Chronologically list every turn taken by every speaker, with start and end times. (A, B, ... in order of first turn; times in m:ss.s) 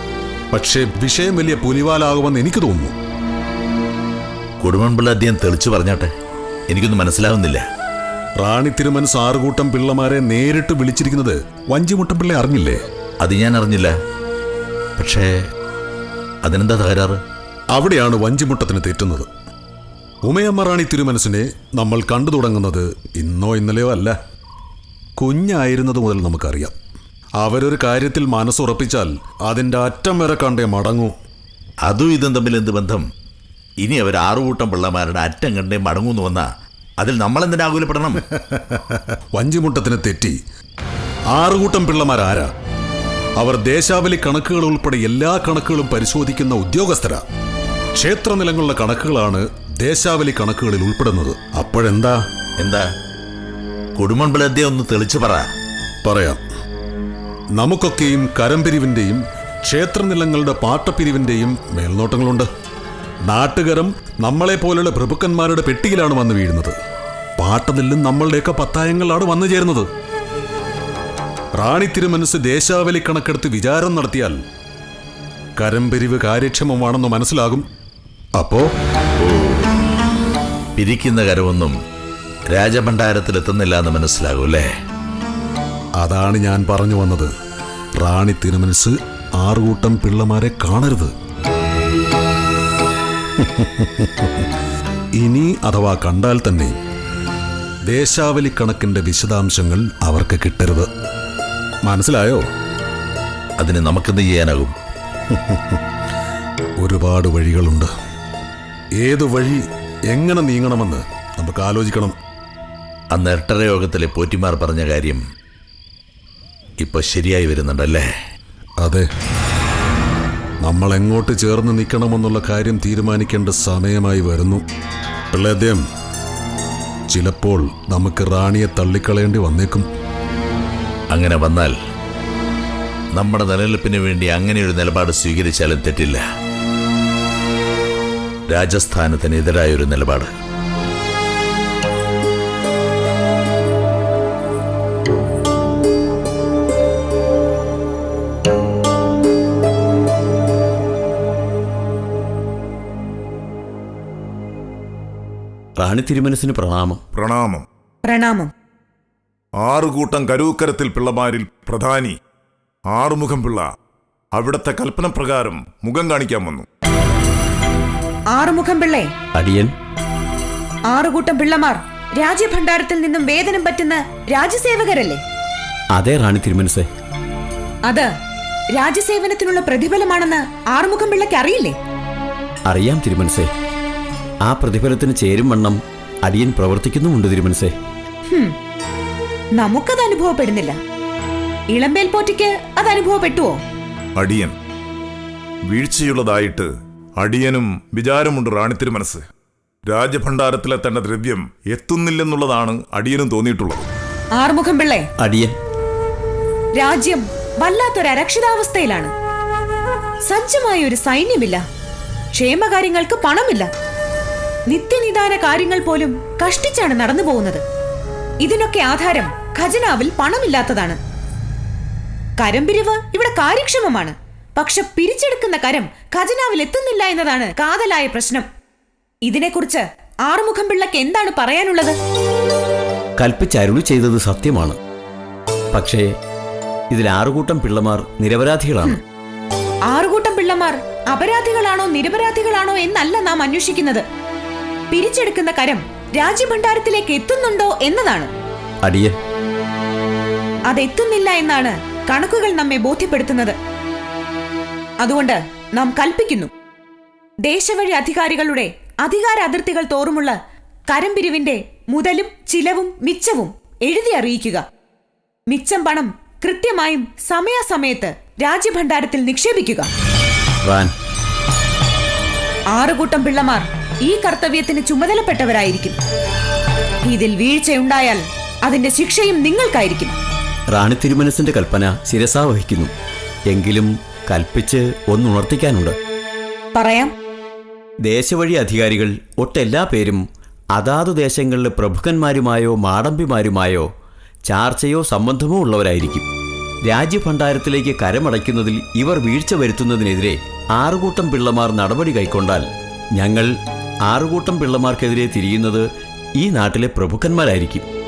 0:00.5-0:02.9 A
0:04.6-0:06.1 B
0:06.7-0:07.6 B
0:08.4-0:12.8 A
0:13.2-0:13.9 B
0:15.0-0:15.3 B
0:16.4-0:17.2 B
0:17.7-0:19.3 A
0:20.2-0:24.2 A
0:25.2-0:26.7 A
0:27.4-0:31.2 A
0:31.9-0:33.0 B
0:33.8-0:36.5 B
0:37.0-0:38.2 B
0:38.3-0:40.4 A
0:41.3-0:42.5 A
0:43.4-0:47.2 A
0:48.0-0:52.2 A
0:52.6-0:52.8 B
0:54.0-0:55.4 B
0:56.0-0:56.4 A
0:57.6-1:02.5 A
1:03.3-1:06.8 A
1:07.4-1:09.9 A
1:11.6-1:14.4 A
1:15.6-1:17.7 A
1:18.4-1:18.7 A
1:19.2-1:19.6 B
1:20.8-1:21.7 B
1:22.5-1:24.7 B
1:26.0-1:27.3 A
1:28.0-1:31.1 A
1:33.4-1:34.5 A
1:35.2-1:36.7 A
1:37.9-1:40.9 A
1:41.9-1:42.4 A
1:43.6-1:44.7 B
1:45.3-1:45.8 A
1:46.8-1:47.9 A
1:49.0-1:52.2 A
1:53.1-1:55.2 B
1:56.8-1:58.1 B
1:58.8-1:59.1 A
2:00.6-2:04.6 A
2:05.3-2:05.8 A
2:07.1-2:09.9 A
2:11.1-2:11.8 B
2:13.2-2:16.2 B
2:18.5-2:20.3 B
2:35.8-2:37.0 C
2:37.2-2:37.6 D
2:38.0-2:38.5 E
2:39.6-2:42.2 D
2:42.9-2:43.7 D
2:44.4-2:46.6 D
2:48.3-2:49.1 E
2:49.4-2:49.7 C
2:50.9-2:55.2 E
2:55.9-2:56.9 C
2:58.7-3:01.8 E
3:02.7-3:03.5 C
3:04.4-3:07.8 C
3:09.6-3:10.8 E
3:11.7-3:13.6 E
3:14.2-3:14.6 D
3:15.7-3:16.7 D
3:17.2-3:19.2 D
3:19.9-3:23.9 D
3:24.4-3:25.1 E
3:25.2-3:25.5 C
3:26.8-3:29.1 E
3:30.3-3:31.6 E
3:32.3-3:33.7 E
3:34.7-3:37.6 E
3:38.4-3:41.0 E
3:42.4-3:48.5 E
3:49.3-3:52.0 E
3:53.2-3:54.8 C
3:55.7-3:56.2 C
3:56.9-3:59.0 C
3:59.9-4:04.0 E
4:04.9-4:08.3 E
4:08.8-4:09.2 C
4:10.7-4:13.6 E
4:15.0-4:16.5 E
4:17.4-4:20.4 E
4:20.9-4:24.6 E
4:25.5-4:29.9 E
4:30.6-4:30.9 C
4:32.7-4:36.0 E
4:37.0-4:40.2 E
4:40.7-4:42.9 C
4:43.5-4:46.0 C
4:46.8-4:47.1 E
4:48.0-4:53.9 C
4:54.5-4:56.3 C
4:56.8-5:07.9 C